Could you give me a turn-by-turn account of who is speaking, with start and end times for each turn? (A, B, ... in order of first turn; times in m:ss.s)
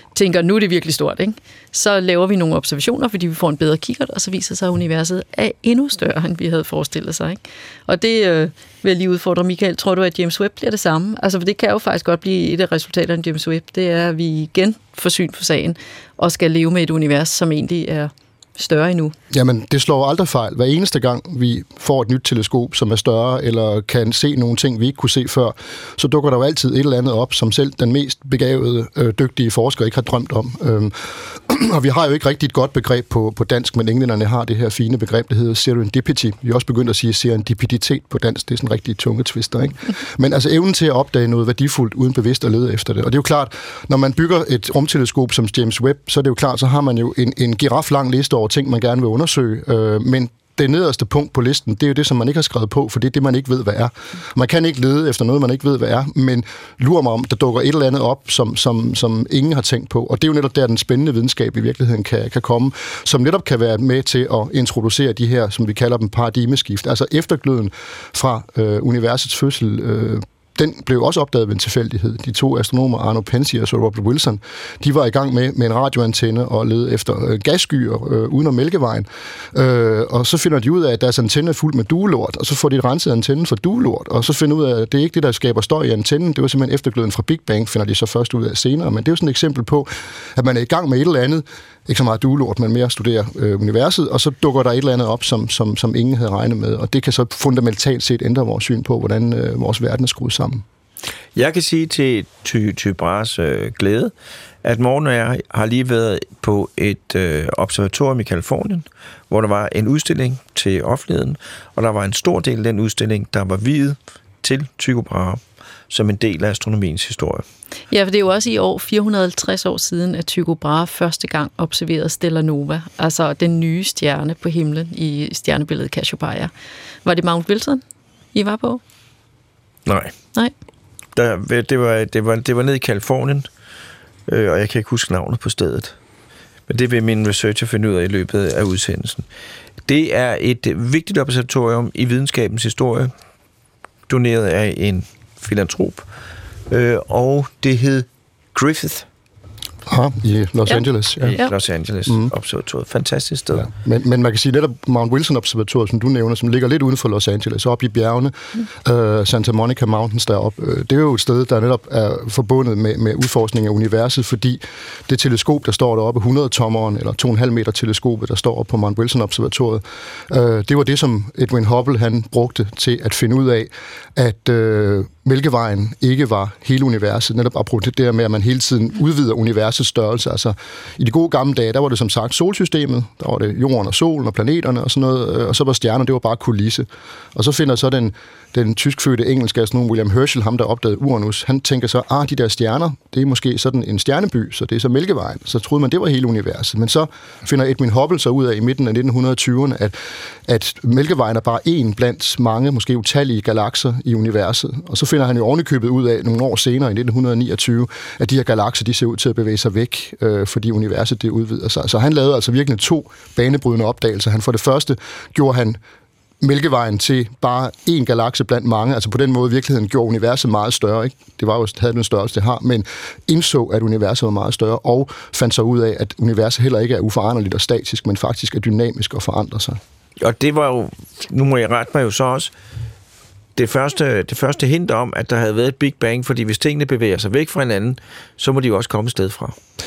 0:00.1-0:19.1 A
0:19.3-1:40.6 B
1:41.3-1:44.1 C
1:44.6-1:57.4 C
1:57.9-2:06.5 A
2:07.0-2:07.8 A
2:08.3-2:08.8 A
2:09.8-2:10.1 C
2:11.1-2:13.5 C
2:14.3-2:15.9 C
2:16.7-2:19.2 C
2:19.9-2:23.1 C
2:24.1-2:26.0 C
2:26.7-2:29.0 C
2:29.8-2:31.4 B
2:31.2-2:33.7 C
2:33.5-3:19.9 B
3:20.4-3:35.8 B
3:36.4-3:49.8 B
3:50.2-3:52.5 C
3:53.6-3:59.6 C